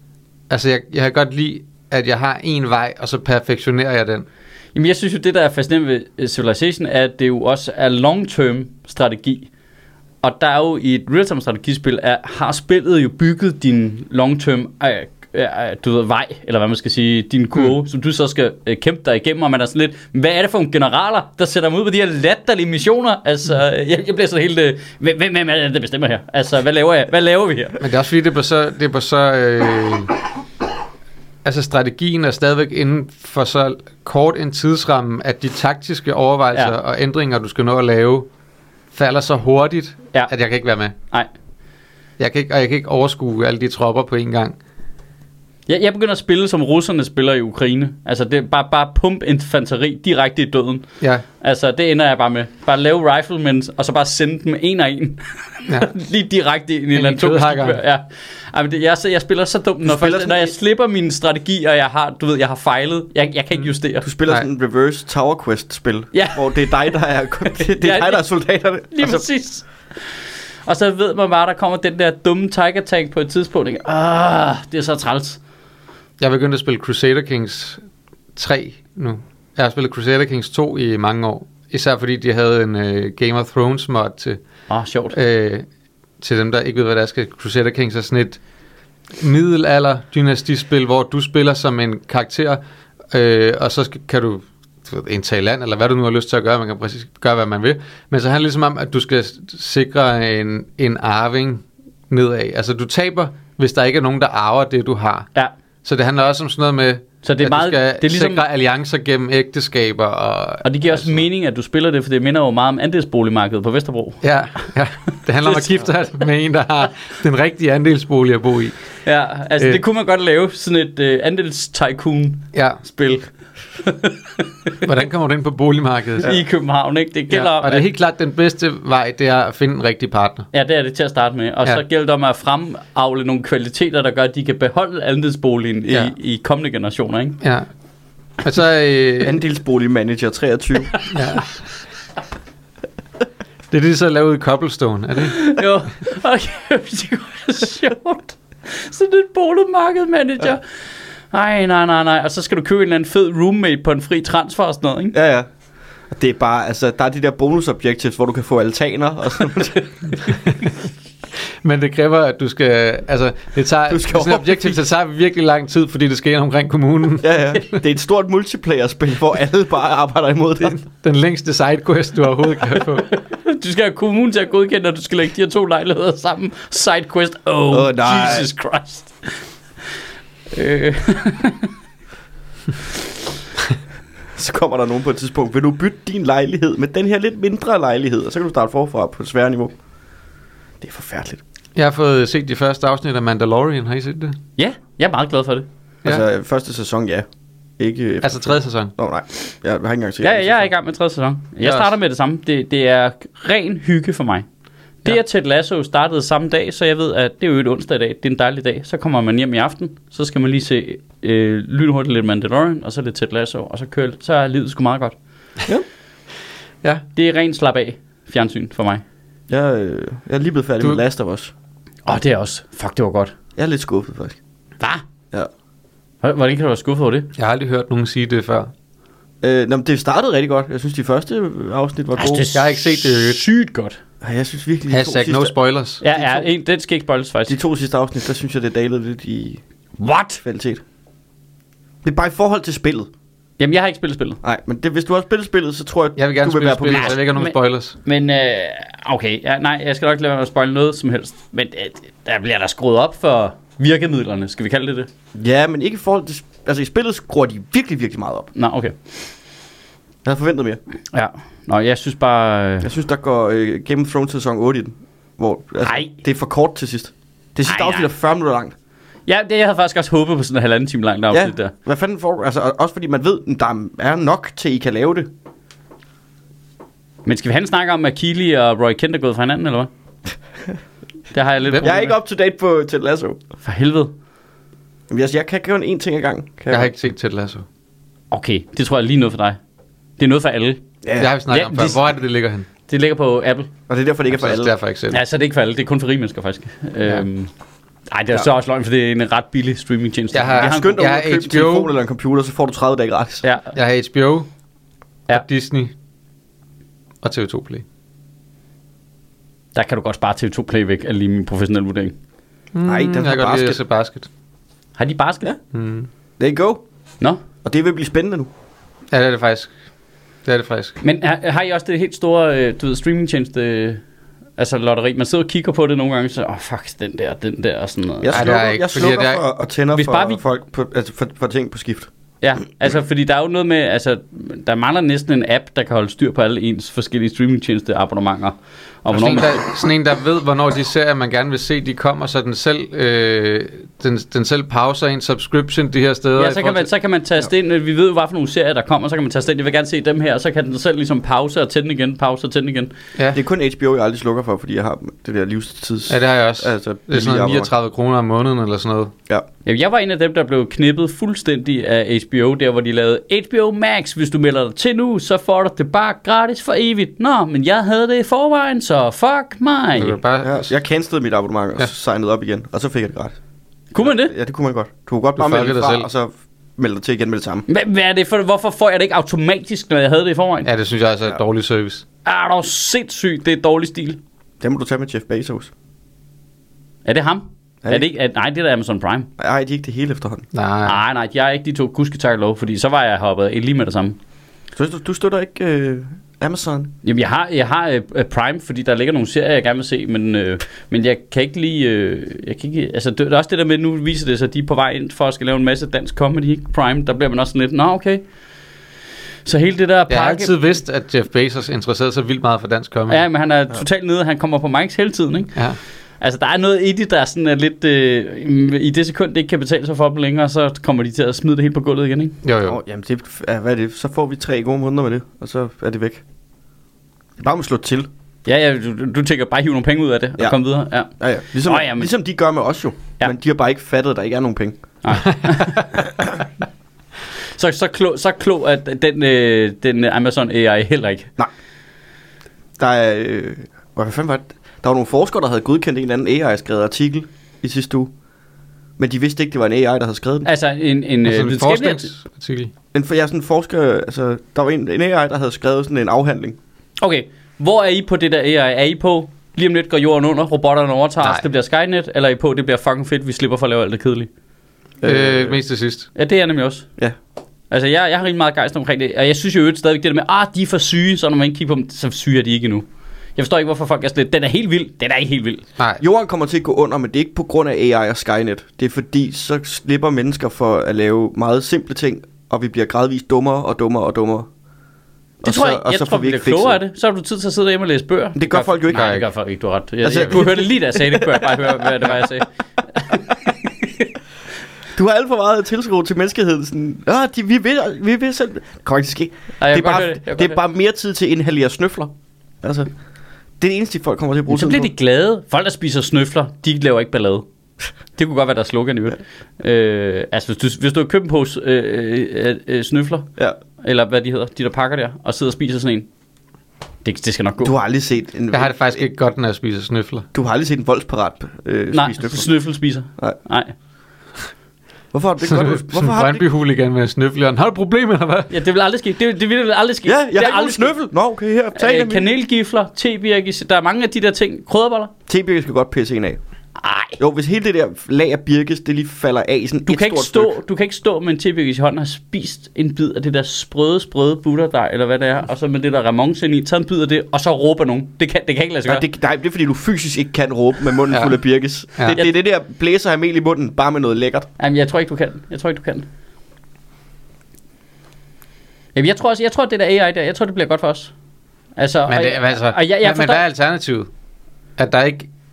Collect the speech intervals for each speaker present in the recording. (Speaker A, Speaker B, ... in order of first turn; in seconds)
Speaker A: 0.5-4.3, 27.8-30.1, 31.4-38.3, 38.9-40.9, 42.2-44.6, 57.0-57.8, 76.2-77.8, 78.4-84.4, 85.1-85.7, 86.2-88.4, 89.2-92.6, 93.1-105.3, 105.8-111.3, 114.2-118.8, 122.5-122.8, 124.8-126.4, 127.3-130.5, 135.9-136.1, 137.4-137.7, 138.4-139.4, 141.1-141.5, 143.7-145.5, 160.2-160.8, 161.6-167.3, 170.6-173.1, 191.8-194.4, 198.2-198.9, 201.6-201.9, 227.3-228.7, 232.5-233.4, 234.9-236.0, 246.2-248.0, 286.7-287.6, 291.2-292.7, 294.3-295.2, 300.3-301.9, 303.7-304.5, 305.3-305.9, 307.2-307.9, 312.7-314.3, 315.7-316.1, 319.1-319.7, 320.4-321.0, 328.3-329.4, 339.1-346.9, 356.1-359.1, 370.0-370.7, 375.4-376.1, 380.6-382.0, 390.5-391.0, 410.1-413.2, 422.4-422.8, 451.2-452.7, 465.0-466.1, 488.9-489.2, 518.5-520.3, 525.5-528.5, 551.1-551.4, 562.1-564.1, 564.8-565.3
Speaker B: 4.8-9.5, 10.2-27.8, 45.7-50.9, 51.4-64.1, 66.1-66.9, 67.6-68.2, 68.9-69.7, 70.7-75.4, 84.7-85.2, 107.2-108.4, 110.6-114.2, 115.4-115.9, 119.0-123.3, 123.8-124.7, 126.2-127.9, 130.5-137.4, 145.2-150.7, 151.3-155.2, 173.1-179.3, 180.5-181.7, 194.6-195.7, 200.2-204.5, 205.0-215.2, 217.2-219.0, 222.1-223.3, 226.2-227.3, 232.2-234.0, 236.0-237.6, 240.0-240.4, 243.6-244.4, 246.9-255.1, 258.6-259.0, 261.1-262.9, 265.8-266.1, 267.7-268.1, 269.3-271.7, 277.2-279.9, 281.3-282.1, 283.6-284.1, 288.3-289.6, 290.2-290.8, 291.5-292.0, 292.9-293.7, 295.1-297.5, 298.1-301.0, 303.4-303.7, 309.8-312.1, 315.0-315.5, 321.0-324.0, 324.6-328.5, 329.9-330.4, 332.4-339.6, 346.4-352.9, 359.6-370.2, 373.9-374.3, 377.7-380.7, 382.2-384.2, 387.1-389.3, 390.9-394.2, 397.0-408.2, 409.4-410.6, 413.1-415.6, 416.2-422.4, 428.5-431.1, 431.6-432.1, 435.0-435.9, 437.6-441.3, 450.4-452.1, 457.0-464.3, 466.1-466.9, 467.7-472.9, 473.4-475.6, 485.4-494.1, 499.6-500.6, 504.5-507.5, 508.1-516.1, 517.0-517.7, 521.9-523.7, 528.5-530.9, 531.8-535.1, 536.8-537.2, 539.9-549.0, 554.6-556.1, 559.0-561.1, 561.8-563.4
Speaker C: 59.9-60.5, 64.0-69.3, 139.2-141.1, 155.1-155.5, 156.1-160.2, 163.9-164.8, 167.2-170.8, 177.7-178.5, 184.4-189.7, 190.8-191.4, 196.1-197.3, 197.8-200.7, 219.5-221.5, 223.6-224.4, 229.4-232.5, 234.2-235.5, 236.1-236.4, 237.5-239.6, 240.4-240.8, 242.0-243.1, 244.4-247.2, 255.3-258.5, 260.2-260.8, 262.8-268.7, 271.3-275.3, 281.8-283.4, 285.1-286.9, 291.0-291.3, 293.9-294.7, 300.6-303.5, 312.9-313.8, 316.4-316.8, 317.6-318.5, 328.2-332.1, 353.3-357.7, 370.4-373.4, 374.0-377.7, 384.6-385.7, 389.4-390.5, 394.8-396.9, 422.7-426.2, 427.4-428.1, 431.1-434.8, 442.8-448.1, 449.0-450.5, 452.9-456.6, 465.0-465.6, 476.0-484.5, 485.4-486.8, 488.4-489.2, 490.0-492.2, 494.9-502.1, 502.6-502.9, 503.6-504.9, 517.6-519.0, 520.3-522.5, 525.1-526.5, 530.1-532.3, 535.3-536.4, 537.2-540.5, 548.9-554.5